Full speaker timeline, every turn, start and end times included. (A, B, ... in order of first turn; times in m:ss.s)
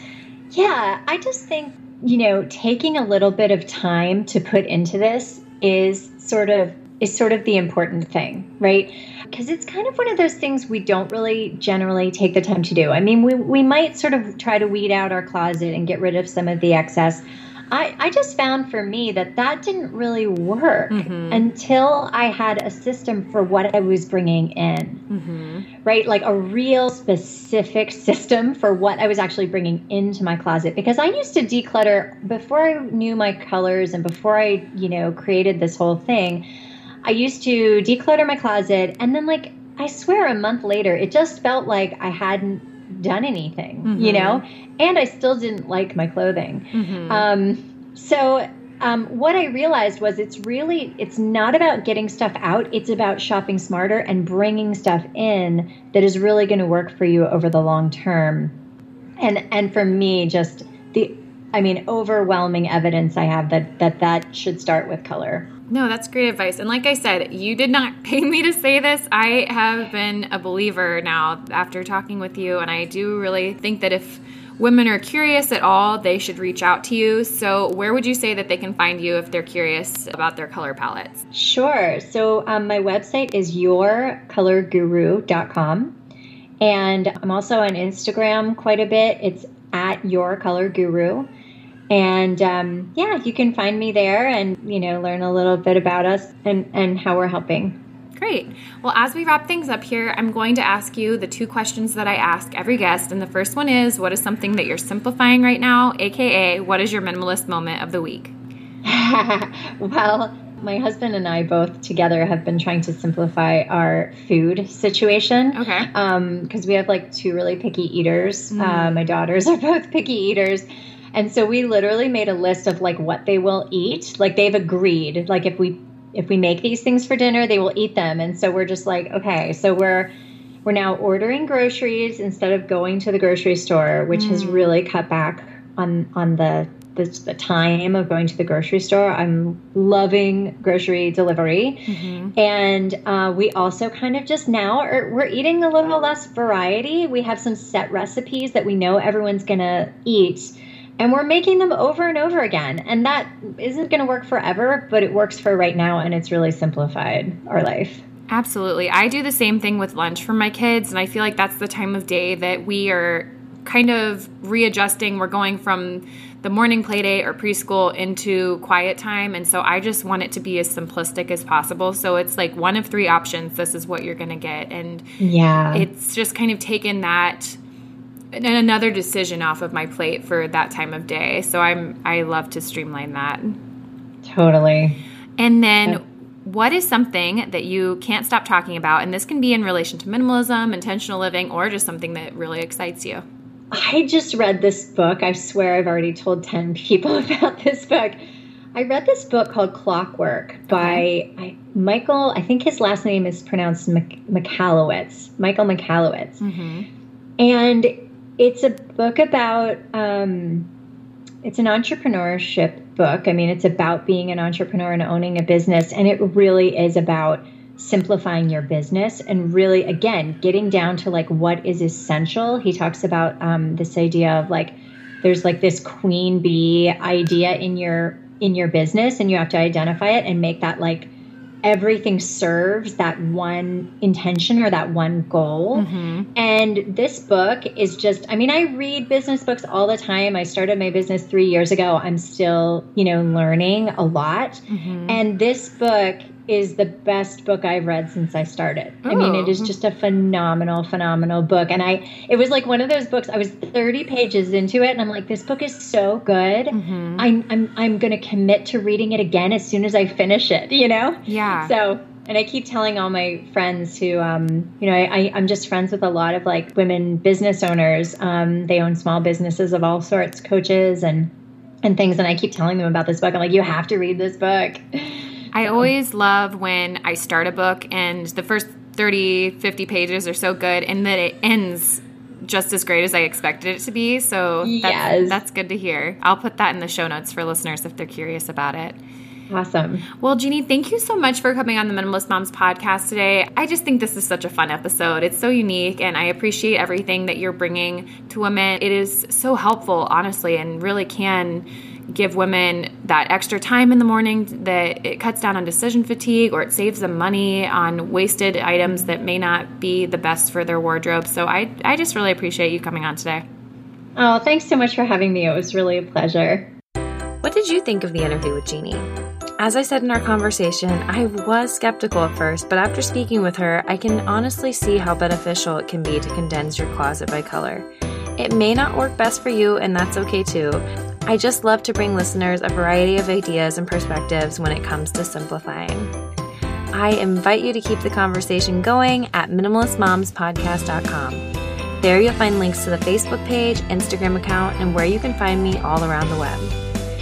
0:00.5-0:25.0 A
0:20.9-0:21.4 B
0:25.1-0:25.7 B
0:25.8-0:36.4 A
0:37.0-0:58.5 A
0:43.9-0:44.4 B
0:46.7-0:47.3 B
0:59.2-1:05.5 A
1:05.7-1:21.2 B
1:21.3-1:25.9 A
1:26.6-1:31.3 A
1:31.9-1:37.8 A
1:38.2-1:48.3 B
1:48.8-2:10.1 A
1:55.6-1:55.9 B
1:58.5-1:59.1 B
2:10.6-2:38.0 A
2:14.1-2:14.8 B
2:21.9-2:22.4 B
2:38.3-2:55.1 B
2:55.2-2:55.9 A
2:55.7-2:57.6 B
2:58.3-3:03.6 B
3:04.2-3:05.0 A
3:05.4-3:13.2 B
3:13.7-3:18.2 A
3:18.8-3:26.4 A
3:20.7-3:21.0 B
3:26.4-3:26.9 B
3:27.4-3:30.7 A
3:31.4-3:51.1 A
3:51.6-4:31.3 A
3:55.8-3:56.3 B
4:04.7-4:05.2 B
4:09.1-4:09.7 B
4:16.7-4:17.3 B
4:21.3-4:21.7 B
4:31.8-4:35.9 A
4:35.5-4:49.0 B
4:44.6-4:45.4 A
4:49.5-4:50.1 A
4:50.2-5:13.4 B
5:14.2-5:16.7 A
5:17.4-5:36.1 C
5:36.9-5:41.5 C
5:42.0-5:46.8 C